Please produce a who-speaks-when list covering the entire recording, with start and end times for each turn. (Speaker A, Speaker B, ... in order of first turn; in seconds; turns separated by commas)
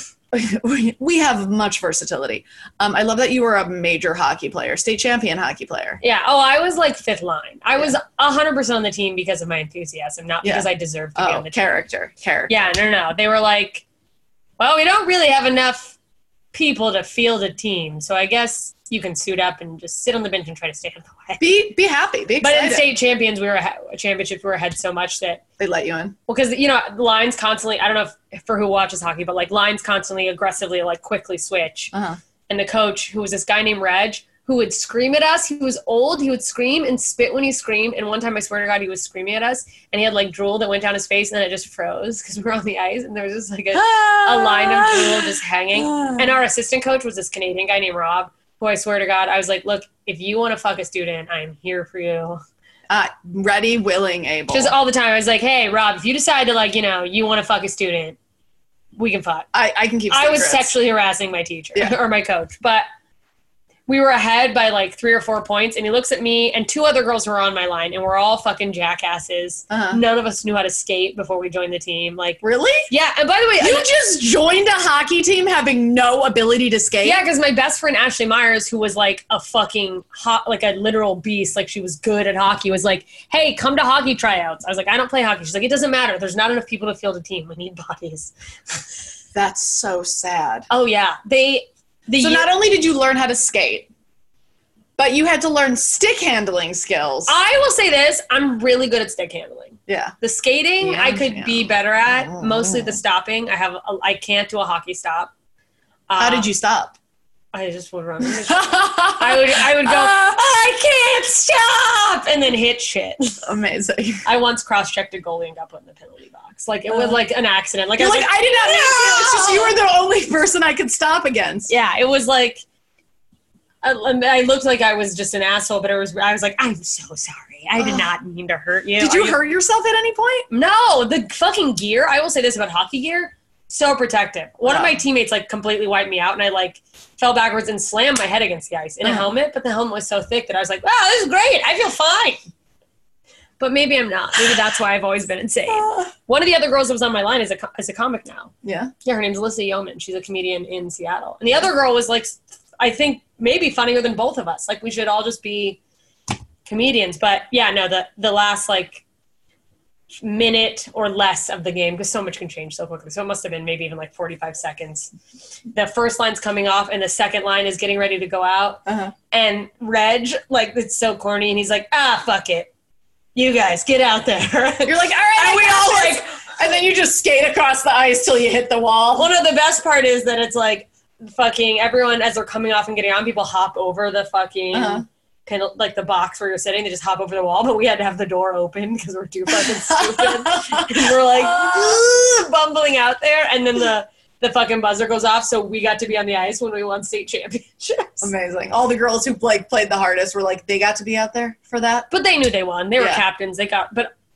Speaker A: 0.3-6.0, Speaker B: 6.0-11.7, Speaker A: 10.4-12.6, Speaker B: 12.5-13.8, Speaker B: 14.6-15.9, Speaker B: 16.5-21.5, Speaker A: 21.4-22.9, Speaker B: 22.4-25.4, Speaker A: 25.6-26.1, Speaker B: 26.3-31.9, Speaker A: 31.9-32.2, Speaker B: 32.5-52.4, Speaker A: 43.7-46.3, Speaker A: 52.9-54.7, Speaker B: 54.5-58.2, Speaker B: 59.0-59.5, Speaker A: 59.5-60.7, Speaker B: 60.1-62.9, Speaker B: 63.9-73.9, Speaker A: 69.7-70.0, Speaker A: 72.4-72.9, Speaker A: 73.6-77.2, Speaker B: 77.0-88.9, Speaker A: 89.3-90.7, Speaker B: 90.7-92.5, Speaker A: 92.2-93.9, Speaker A: 95.0-97.3, Speaker B: 97.2-105.3, Speaker A: 99.9-100.1, Speaker A: 100.8-103.0, Speaker B: 106.1-106.5, Speaker A: 106.2-106.9, Speaker B: 107.5-113.4, Speaker A: 108.2-110.4, Speaker A: 113.4-114.2, Speaker B: 114.2-119.8, Speaker A: 116.9-117.2, Speaker A: 118.0-121.7, Speaker B: 121.7-122.6, Speaker B: 123.8-129.4, Speaker A: 127.8-128.1, Speaker A: 129.0-130.4, Speaker B: 130.5-142.4, Speaker A: 134.6-135.0, Speaker A: 139.0-139.3, Speaker B: 143.6-148.5, Speaker A: 145.7-146.1, Speaker A: 148.6-148.9, Speaker B: 149.0-155.8, Speaker B: 156.6-159.0, Speaker B: 160.2-165.1, Speaker B: 165.7-172.7, Speaker A: 168.8-169.1, Speaker B: 173.3-176.2, Speaker A: 174.8-179.3, Speaker B: 179.2-198.3, Speaker A: 184.7-185.0, Speaker A: 189.5-192.1, Speaker A: 198.2-202.1, Speaker B: 202.1-204.1, Speaker A: 203.0-203.2